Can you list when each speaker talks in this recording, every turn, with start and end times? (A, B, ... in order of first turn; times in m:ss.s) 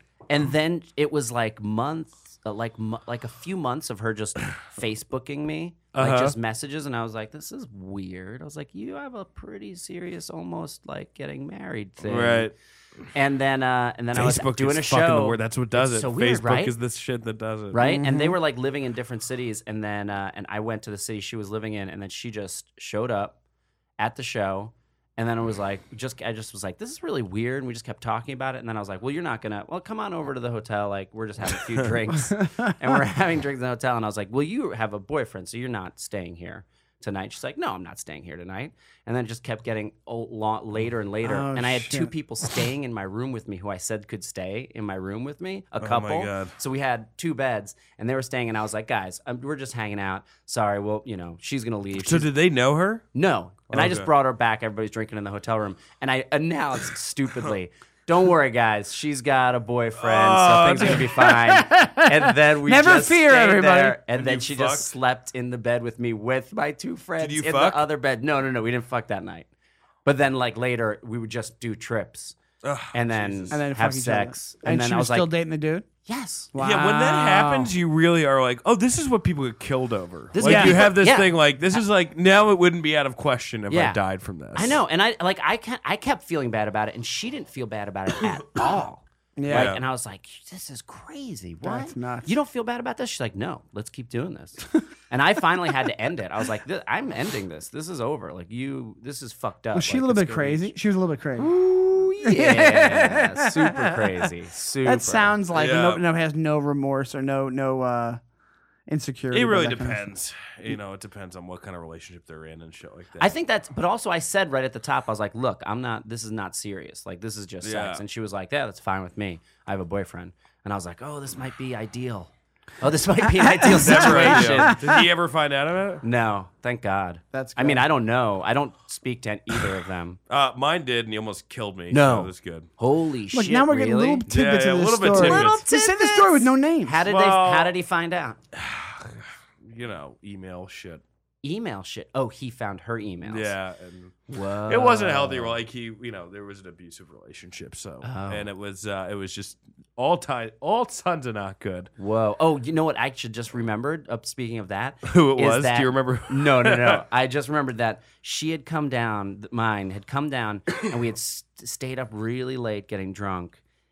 0:00.3-0:12.5 A
0:05.9-0:06.4 B
0:12.0-0:12.5 B
0:13.1-0:16.7 A
0:14.1-0:17.8 B
0:17.7-0:23.4 A
0:17.8-0:18.4 C
0:24.0-0:52.3 A
0:32.3-0:33.0 C
0:41.2-0:42.1 C
0:45.8-0:46.5 B
0:52.0-0:53.1 B
0:53.1-1:09.5 A
0:53.7-0:54.1 B
1:00.0-1:01.2 B
1:01.0-1:04.0 C
1:04.1-1:04.9 B
1:07.2-1:07.8 B
1:10.0-1:12.4 A
1:12.6-1:13.6 B
1:12.9-1:15.3 A
1:13.5-1:15.9 C
1:16.0-1:16.5 A
1:16.5-1:17.7 C
1:16.6-1:24.8 B
1:20.4-1:21.3 A
1:20.4-1:20.9 C
1:23.7-1:24.0 A
1:24.5-1:40.7 A
1:29.4-1:29.8 C
1:29.5-1:29.8 B
1:31.6-1:32.3 C
1:39.7-1:41.5 C
1:41.4-1:45.3 A
1:42.2-1:44.0 C
1:44.8-1:48.2 C
1:45.5-1:46.0 B
1:48.9-1:50.0 C
1:49.3-1:53.3 B
1:53.2-2:04.8 A
1:57.6-1:58.0 B
2:03.4-2:05.0 C
2:03.7-2:06.0 B
2:06.0-2:10.2 A
2:07.3-2:07.9 C
2:10.3-2:12.7 B
2:11.9-2:14.2 A
2:13.3-2:17.0 C
2:14.3-2:15.6 B
2:15.1-2:18.4 A
2:17.1-2:17.7 B
2:18.5-2:21.0 B
2:21.4-2:23.5 A
2:23.2-2:31.9 B
2:24.3-2:25.6 A
2:28.0-2:28.5 A
2:32.0-2:43.6 A
2:35.0-2:37.0 B